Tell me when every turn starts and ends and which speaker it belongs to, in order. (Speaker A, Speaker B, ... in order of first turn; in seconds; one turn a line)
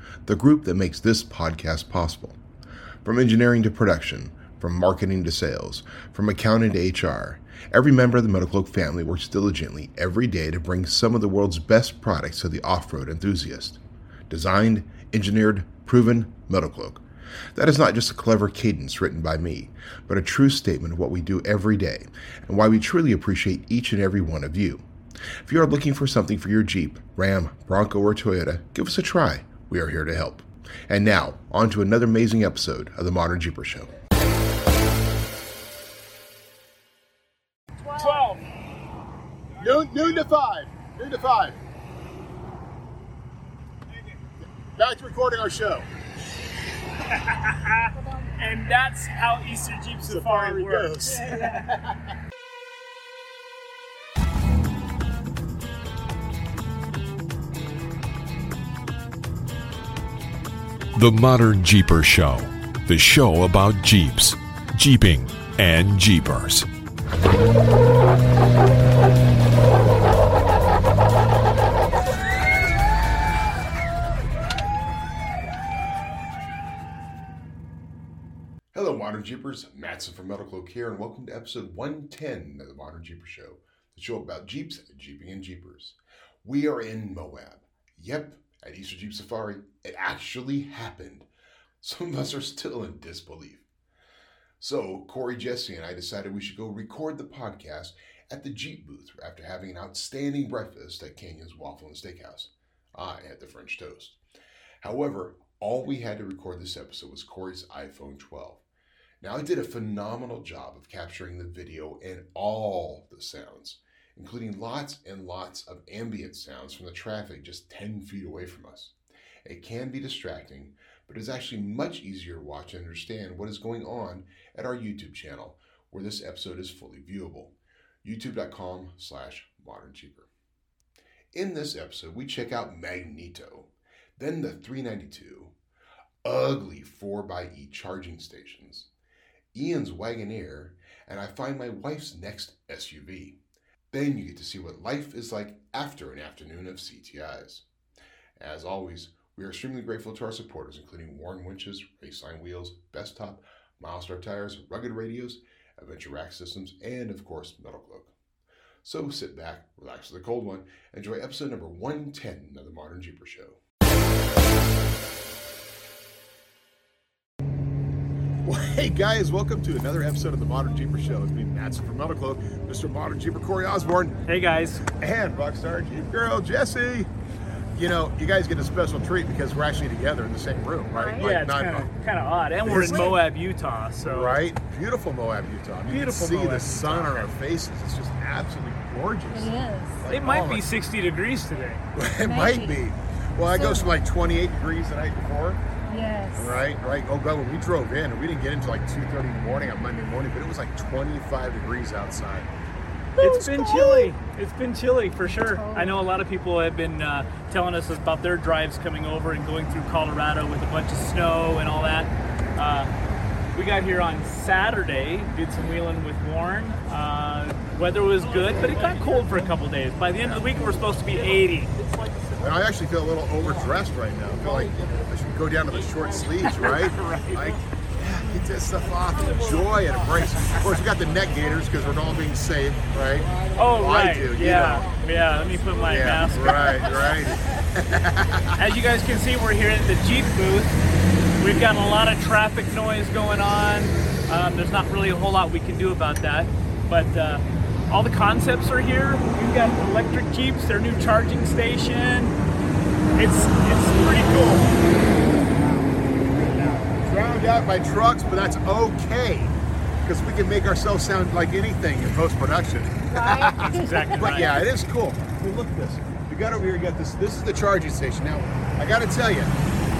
Speaker A: 0.4-2.4
Speaker A: 3.0-13.8
Speaker A: 14.3-17.0
Speaker A: 17.6-24.8
Speaker A: 25.4-33.9
Speaker B: 37.8-38.4
Speaker C: 38.0-38.5
Speaker D: 39.6-41.6
Speaker D: 44.4-45.9
Speaker C: 47.1-51.5
Speaker B: 47.9-48.3
Speaker D: 50.0-51.3
Speaker B: 51.3-51.6
Speaker E: 60.9-66.7
Speaker A: 78.7-91.2
Speaker A: 91.8-93.6
Speaker A: 94.6-104.2
Speaker A: 104.8-108.6
Speaker A: 109.2-118.9
Speaker A: 119.4-127.5
Speaker A: 128.0-130.3
Speaker A: 131.3-135.5
Speaker A: 136.2-138.9
Speaker A: 139.5-143.3
Speaker A: 143.9-147.6
Speaker A: 148.4-158.1
Speaker A: 158.8-163.6
Speaker D: 168.4-174.2
Speaker C: 174.2-174.8
Speaker D: 174.8-177.1
Speaker D: 177.7-181.9
Speaker B: 180.9-181.3
Speaker C: 181.2-184.4
Speaker D: 182.6-183.2
Speaker B: 182.7-183.2
Speaker D: 184.0-190.7
Speaker C: 185.8-187.3
Speaker B: 189.3-190.0
Speaker C: 190.1-191.8
Speaker D: 191.9-195.6
Speaker B: 192.2-192.8
Speaker B: 193.4-193.9
Speaker B: 195.9-196.6
Speaker D: 196.3-202.5
Speaker B: 203.2-204.1
Speaker C: 203.2-212.9
Speaker B: 205.4-206.0
Speaker C: 213.5-222.6
Speaker D: 220.2-220.4
Speaker D: 222.4-234.9
Speaker C: 223.4-223.7
Speaker C: 224.4-224.8
Speaker C: 225.7-227.6
Speaker C: 230.2-230.5
Speaker C: 233.5-237.0
Speaker D: 235.8-238.6
Speaker B: 236.4-237.1
Speaker C: 238.6-240.7
Speaker C: 241.4-252.3
Speaker C: 253.1-254.8
Speaker C: 255.6-256.9
Speaker D: 257.0-269.5
Speaker B: 263.1-264.6
Speaker C: 263.7-264.5